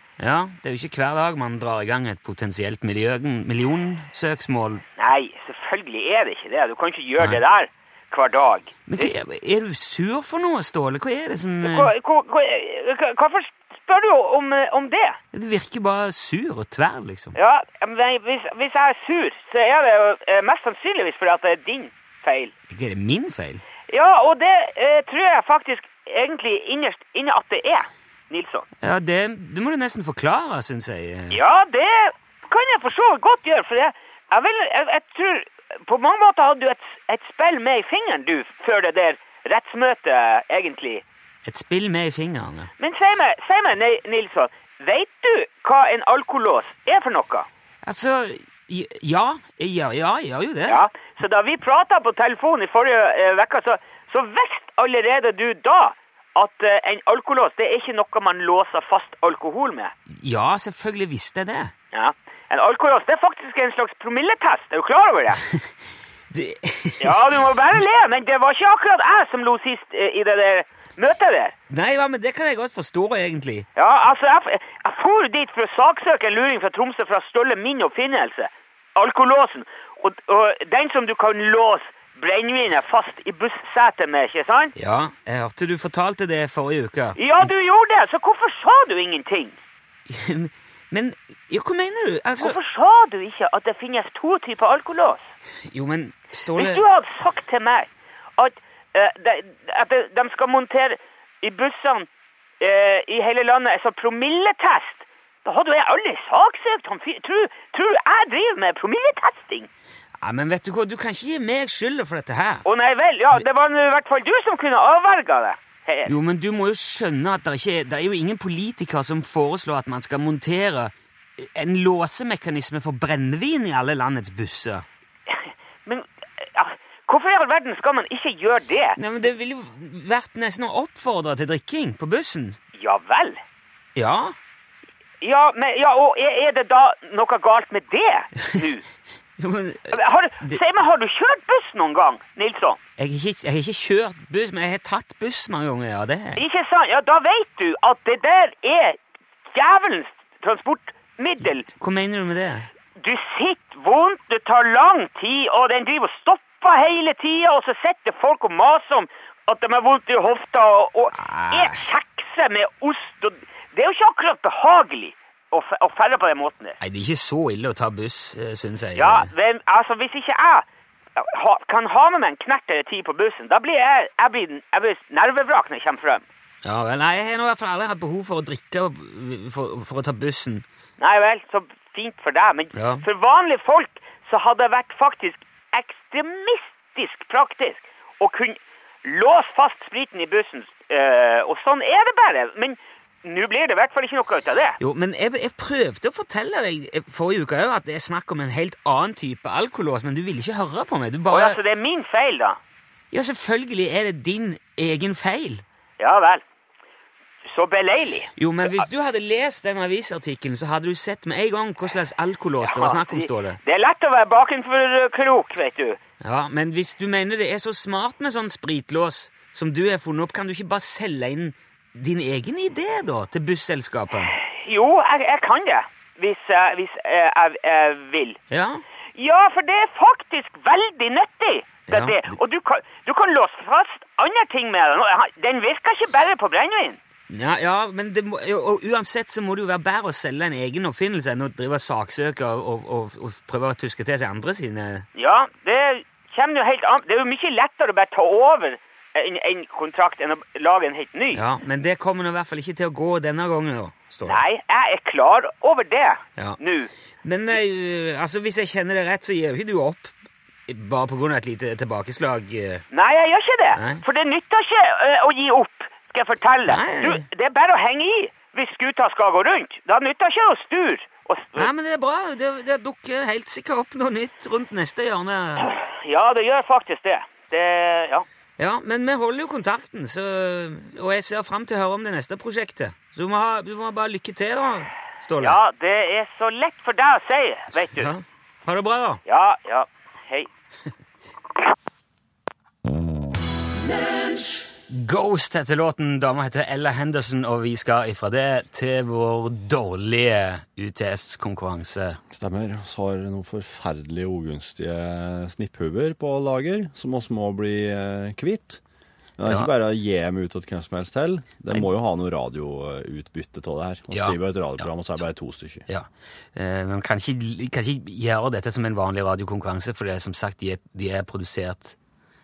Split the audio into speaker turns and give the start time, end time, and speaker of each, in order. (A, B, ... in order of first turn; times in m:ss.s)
0:00.2-0:04.8 A
0:05.0-0:09.1 B
0:08.9-0:11.9 A
0:11.6-0:15.2 B
0:15.3-0:17.4 A
0:17.4-0:22.5 B
0:22.7-0:23.6 A
0:23.9-0:28.7 B
0:28.8-0:31.4 A
0:31.3-0:41.0 B
0:41.5-0:42.7 A
0:42.8-0:47.5 B
0:47.8-0:50.8 A
0:50.7-0:59.9 B
1:00.1-1:01.7 A
1:01.9-1:05.4 B
1:06.3-1:07.2 A
1:07.0-1:11.5 B
1:11.7-1:13.7 A
1:13.8-1:24.7 B
1:24.8-1:27.5 A
1:27.2-1:29.6 B
1:30.1-1:32.6 A
1:32.4-1:35.3 B
1:35.7-1:36.8 A
1:36.6-1:42.1 B
1:42.6-1:49.7 B
1:50.2-1:52.6 A
1:52.7-1:56.1 B
1:56.1-2:04.9 A
2:05.3-2:09.0 B
2:09.0-2:12.6 A
2:12.8-2:13.4 B
2:14.0-2:14.4 A
2:15.2-2:18.8 B
2:19.4-2:20.6 A
2:19.9-2:22.8 B
2:23.0-2:26.4 A
2:26.4-2:29.0 B
2:29.5-2:31.7 B
2:31.7-2:32.7 A
2:33.0-2:46.8 B
2:41.1-2:41.8 A
2:46.8-2:49.3 A
2:49.0-2:50.6 B
2:51.2-2:56.2 B
2:56.6-3:00.6 A
3:01.0-3:14.8 B
3:02.8-3:03.0 A
3:14.8-3:21.6 A
3:21.3-3:22.6 B
3:23.1-3:25.6 A
3:26.0-3:26.4 B
3:27.5-3:28.8 B
3:28.4-3:33.6 A
3:32.6-3:36.0 B
3:36.2-3:44.4 A
3:44.4-3:48.4 B
3:48.5-3:48.8 A
3:49.2-3:57.0 B
3:51.9-3:52.4 A
3:57.3-4:05.1 A
4:05.2-4:11.4 B
4:11.3-4:14.4 A
4:14.2-4:16.9 B
4:17.2-4:20.1 A
4:20.7-4:22.8 A
4:22.9-4:31.7 B
4:23.8-4:24.0 A
4:26.7-4:27.3 A
4:31.6-4:35.7 A
4:35.6-4:38.3 B
4:38.6-4:45.6 A
4:45.4-4:48.1 B
4:48.0-4:49.2 A
4:49.3-4:50.5 B
4:54.9-5:02.2 A
5:02.3-5:08.8 C
5:09.4-5:15.9 C
5:09.5-5:09.7 A
5:14.1-5:14.9 A
5:15.9-5:22.0 A